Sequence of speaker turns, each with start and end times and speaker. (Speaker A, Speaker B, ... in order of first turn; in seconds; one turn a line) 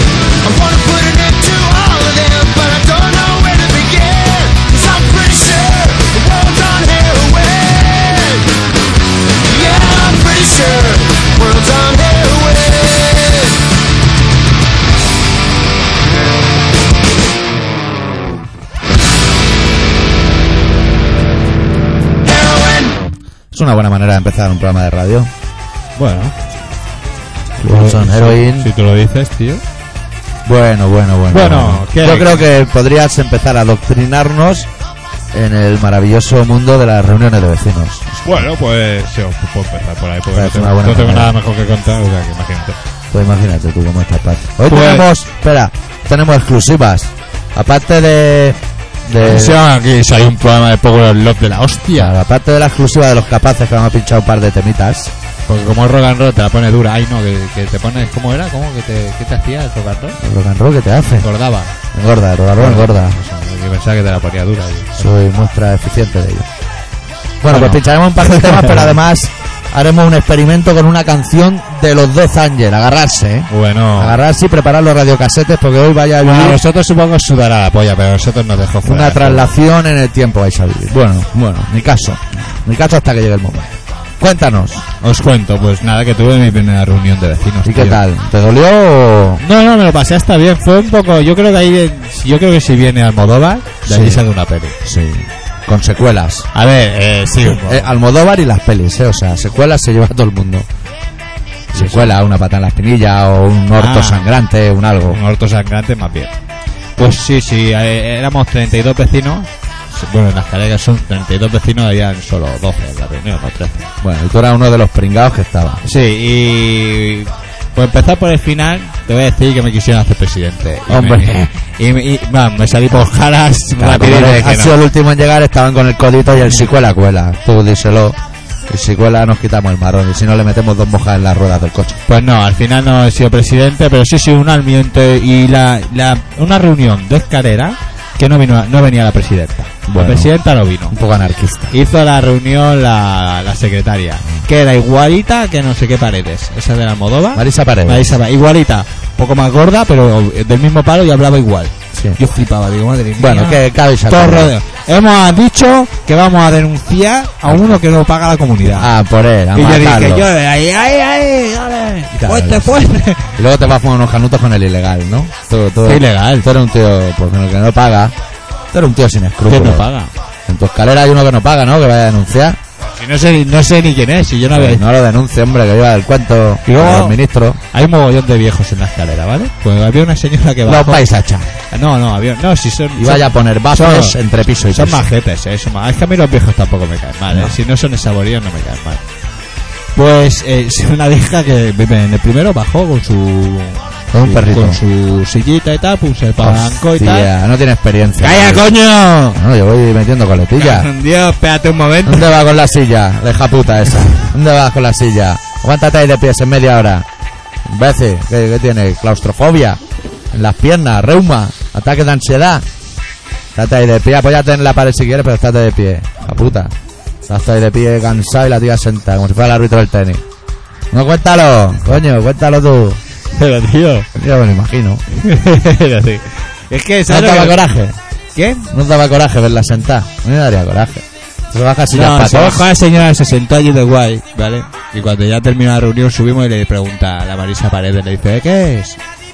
Speaker A: 0.4-8.5
Speaker A: 9.4-13.6
Speaker A: 22.2-23.1
Speaker B: 23.5-25.3
Speaker C: 26.0-26.3
Speaker C: 27.6-29.6
Speaker B: 27.7-28.7
Speaker B: 30.4-34.7
Speaker C: 31.3-32.5
Speaker B: 35.3-38.5
Speaker C: 38.2-42.8
Speaker B: 40.3-41.3
Speaker B: 43.1-49.6
Speaker C: 44.7-45.1
Speaker C: 49.2-52.1
Speaker B: 51.9-55.1
Speaker C: 55.5-60.2
Speaker B: 60.2-61.3
Speaker C: 61.2-61.8
Speaker B: 61.9-63.2
Speaker C: 62.6-65.1
Speaker B: 65.0-66.5
Speaker B: 67.4-76.6
Speaker C: 67.5-69.0
Speaker C: 73.5-74.2
Speaker C: 76.2-79.6
Speaker B: 78.8-84.8
Speaker C: 85.0-88.0
Speaker B: 87.6-89.4
Speaker C: 89.4-94.8
Speaker B: 93.9-94.2
Speaker B: 94.8-96.5
Speaker C: 96.5-97.9
Speaker B: 97.6-100.7
Speaker B: 101.7-105.2
Speaker C: 101.7-102.2
Speaker C: 103.8-104.3
Speaker C: 105.1-106.3
Speaker C: 107.0-113.9
Speaker B: 114.0-115.8
Speaker C: 115.8-124.8
Speaker B: 120.9-121.5
Speaker B: 123.8-128.2
Speaker B: 128.7-132.0
Speaker C: 132.1-141.0
Speaker B: 139.9-140.3
Speaker B: 140.9-141.8
Speaker C: 141.7-158.9
Speaker B: 147.3-148.2
Speaker B: 151.9-152.2
Speaker B: 153.2-154.5
Speaker B: 157.5-157.8
Speaker B: 158.7-160.3
Speaker C: 159.6-163.4
Speaker B: 162.2-162.8
Speaker B: 163.4-168.2
Speaker C: 165.8-166.5
Speaker B: 168.7-169.8
Speaker C: 169.5-170.1
Speaker B: 170.5-172.6
Speaker C: 172.8-174.8
Speaker B: 174.5-177.6
Speaker C: 176.7-177.2
Speaker C: 177.7-181.1
Speaker B: 180.7-181.5
Speaker C: 181.7-189.0
Speaker B: 183.0-185.0
Speaker B: 187.3-187.6
Speaker C: 189.9-197.3
Speaker B: 194.1-194.8
Speaker B: 196.4-198.7
Speaker C: 198.2-199.4
Speaker B: 199.3-200.9
Speaker C: 200.6-202.3
Speaker B: 202.1-207.1
Speaker B: 207.7-209.8
Speaker B: 210.3-212.7
Speaker B: 213.6-216.7
Speaker B: 217.3-220.2
Speaker B: 220.9-223.0
Speaker C: 223.3-224.1
Speaker B: 224.2-225.0
Speaker C: 225.1-227.7
Speaker B: 227.1-228.0
Speaker C: 228.3-228.7
Speaker B: 228.7-232.7
Speaker C: 231.9-239.0